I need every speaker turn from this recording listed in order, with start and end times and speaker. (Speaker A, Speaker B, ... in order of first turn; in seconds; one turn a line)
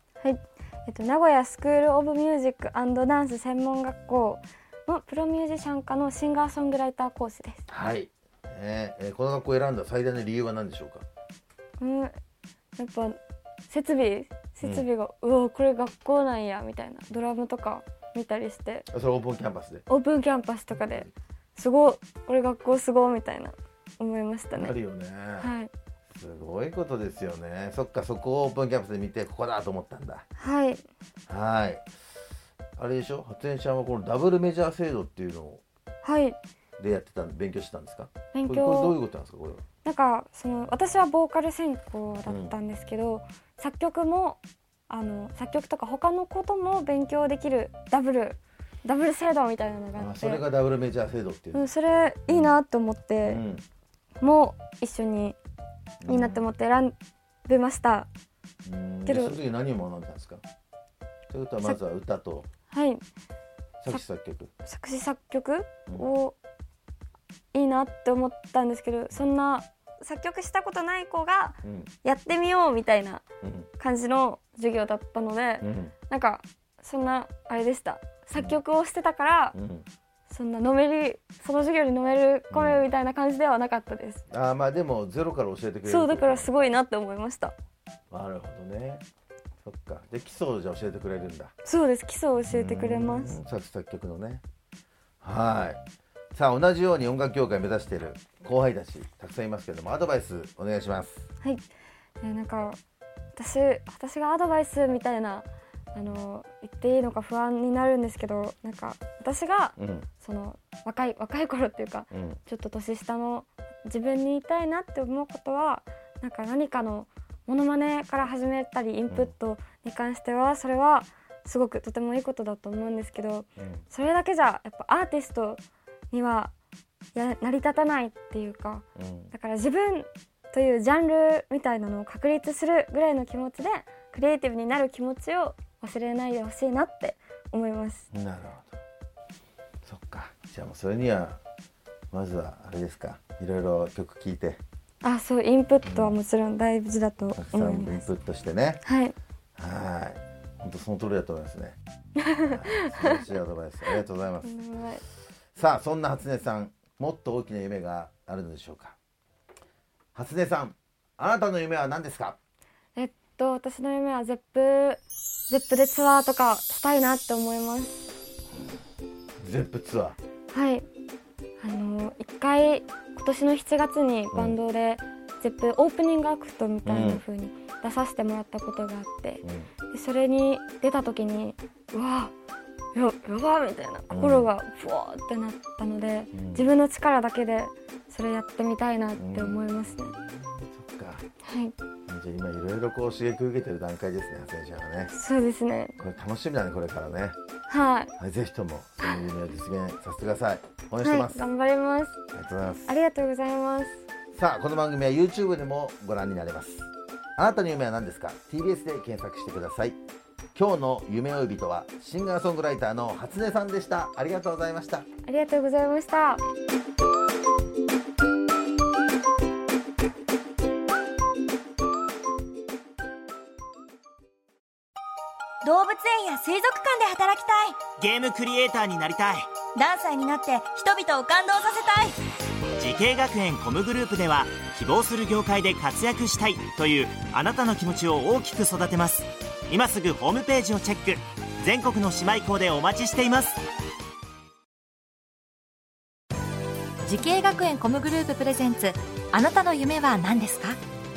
Speaker A: 0.2-7.6
Speaker B: 7.7-11.1
Speaker A: 11.8-12.1
Speaker A: 12.8-18.9
Speaker B: 18.9-19.8
Speaker A: 19.9-24.7
Speaker B: 24.5-25.5
Speaker A: 25.4-25.7
Speaker B: 26.1-30.2
Speaker A: 30.4-30.8
Speaker B: 31.3-31.8
Speaker B: 32.8-35.6
Speaker A: 36.0-36.4
Speaker B: 36.8-39.6
Speaker A: 38.3-39.0
Speaker A: 39.8-50.4
Speaker B: 42.2-42.6
Speaker B: 50.0-51.7
Speaker A: 51.5-53.4
Speaker B: 52.3-52.6
Speaker B: 53.2-53.6
Speaker A: 54.2-55.4
Speaker B: 56.0-56.5
Speaker A: 56.1-58.1
Speaker B: 58.6-60.4
Speaker A: 59.1-59.4
Speaker B: 61.3-62.5
Speaker A: 62.7-63.0
Speaker B: 63.8-64.5
Speaker A: 64.6-66.4
Speaker A: 67.5-73.2
Speaker B: 71.6-71.9
Speaker B: 73.4-73.7
Speaker A: 73.8-79.6
Speaker B: 75.6-75.9
Speaker B: 79.5-79.9
Speaker A: 80.3-84.2
Speaker B: 82.5-82.8
Speaker B: 84.3-86.6
Speaker A: 85.9-87.5
Speaker B: 88.1-89.0
Speaker B: 89.6-91.5
Speaker A: 91.6-93.4
Speaker B: 92.5-94.4
Speaker B: 95.2-95.8
Speaker B: 96.3-101.3
Speaker A: 102.2-102.8
Speaker A: 103.4-126.5
Speaker B: 109.8-110.1
Speaker B: 112.1-112.4
Speaker B: 123.6-123.8
Speaker A: 127.1-138.1
Speaker B: 128.9-129.3
Speaker B: 138.1-138.8
Speaker B: 139.8-141.4
Speaker B: 142.1-144.6
Speaker A: 145.0-148.1
Speaker B: 145.8-146.2
Speaker B: 147.4-148.8
Speaker A: 148.8-149.1
Speaker B: 149.6-151.8
Speaker A: 152.2-153.2
Speaker B: 152.4-154.6
Speaker A: 154.4-155.0
Speaker B: 155.6-158.9
Speaker B: 160.1-162.4
Speaker A: 162.9-168.1
Speaker B: 169.4-170.2
Speaker A: 170.5-170.9
Speaker A: 171.6-182.3
Speaker B: 176.8-177.2
Speaker B: 179.4-179.7
Speaker A: 182.9-190.1
Speaker B: 184.1-184.5
Speaker B: 186.3-186.7
Speaker B: 189.2-191.2
Speaker A: 191.4-191.8
Speaker B: 192.1-195.1
Speaker A: 195.1-195.9
Speaker B: 196.0-197.4
Speaker A: 197.7-198.1
Speaker B: 198.2-201.4
Speaker A: 201.0-202.2
Speaker B: 202.3-203.0
Speaker A: 202.9-204.0
Speaker B: 204.3-210.0
Speaker B: 210.6-215.1
Speaker A: 215.2-216.4
Speaker C: 225.6-227.9
Speaker D: 228.0-229.6
Speaker C: 229.7-232.2
Speaker D: 232.8-243.6
Speaker E: 247.0-250.8